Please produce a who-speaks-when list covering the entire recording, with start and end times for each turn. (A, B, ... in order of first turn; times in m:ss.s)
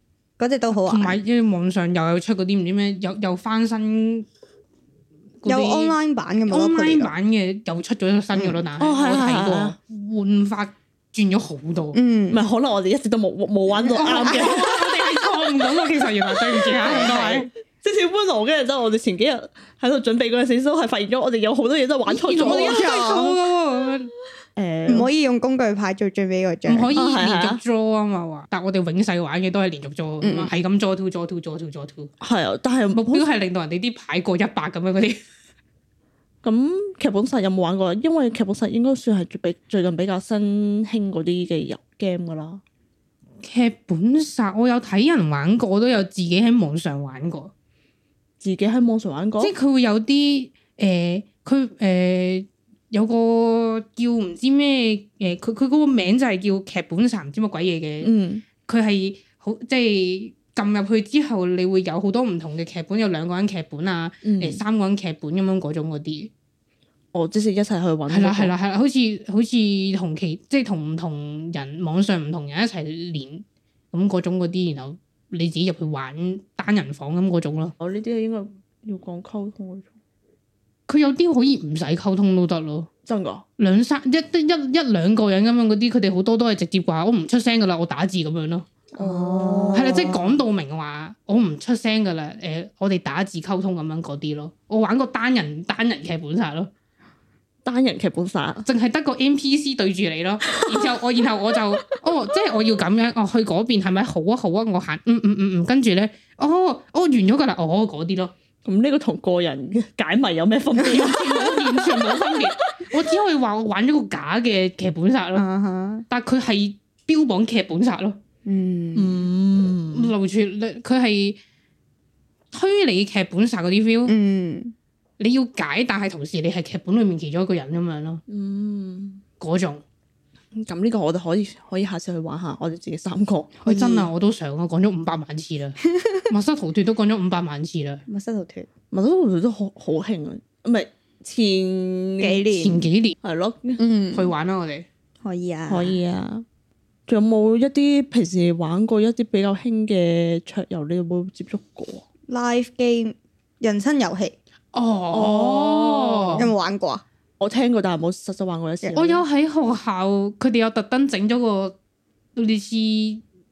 0:00.4-0:01.2 A
0:00.7-0:04.3 B
0:05.4-0:12.0 B
0:05.4-0:07.1 A
0:08.3-0:08.7 A
0:08.8-0:09.7 C
0:11.9-0:12.4 A
0:12.3-0:15.0 C
0:13.8-0:14.5 A
0:14.0-0:17.5 B
0:16.3-0:22.9 C
0:22.0-0:24.1 B
0:22.4-0:23.4 A
0:24.6-0:25.1 C
0:24.9-0:26.9 A
0:26.6-0:32.1 B
0:26.9-0:27.6 C
0:30.2-0:30.5 A
0:32.2-0:33.3 C
0:32.9-0:35.2 B
0:36.4-0:42.6 C
0:43.4-0:47.5 B
0:48.4-0:49.5 C
0:49.4-1:06.3 B
0:58.0-0:58.4 C
1:04.2-1:04.6 C
1:07.1-1:08.5 C
1:08.1-1:17.7 B
1:17.8-1:19.9 C
1:20.9-1:22.9 B
1:23.0-1:23.4 C
1:23.6-1:28.7 B
1:29.0-1:30.1 C
1:29.0-1:30.2 A
1:29.7-1:36.7 B
1:37.6-1:38.6 C
1:38.6-1:48.3 B
1:40.5-1:40.9 C
1:48.6-1:52.8 C
1:50.8-1:51.1 A
1:50.9-1:55.5 B
1:55.3-1:56.0 A
1:56.1-1:58.2 B
1:58.4-1:59.3 A
1:58.9-2:00.1 C
1:59.9-2:01.4 B
2:02.5-2:04.1 B
2:04.0-2:04.7 A
2:05.2-2:08.2 B
2:08.3-2:09.2 C
2:09.4-2:09.8 B
2:10.6-2:14.0 C
2:13.6-2:18.0 B
2:15.8-2:16.3 A
2:18.1-2:18.7 A
2:18.9-2:22.4 C
2:22.2-2:22.8 A
2:22.5-2:23.2 B
2:23.2-2:23.8 C
2:23.8-2:24.3 A
2:24.1-2:24.8 B
2:25.2-2:26.0 A
2:25.7-2:26.4 C
2:27.1-2:32.0 C
2:32.3-2:34.4 A
2:34.7-2:36.5 B
2:35.1-2:36.5 C
2:36.4-2:37.0 A
2:37.4-2:39.2 C
2:38.9-2:41.8 B
2:42.4-2:43.2 B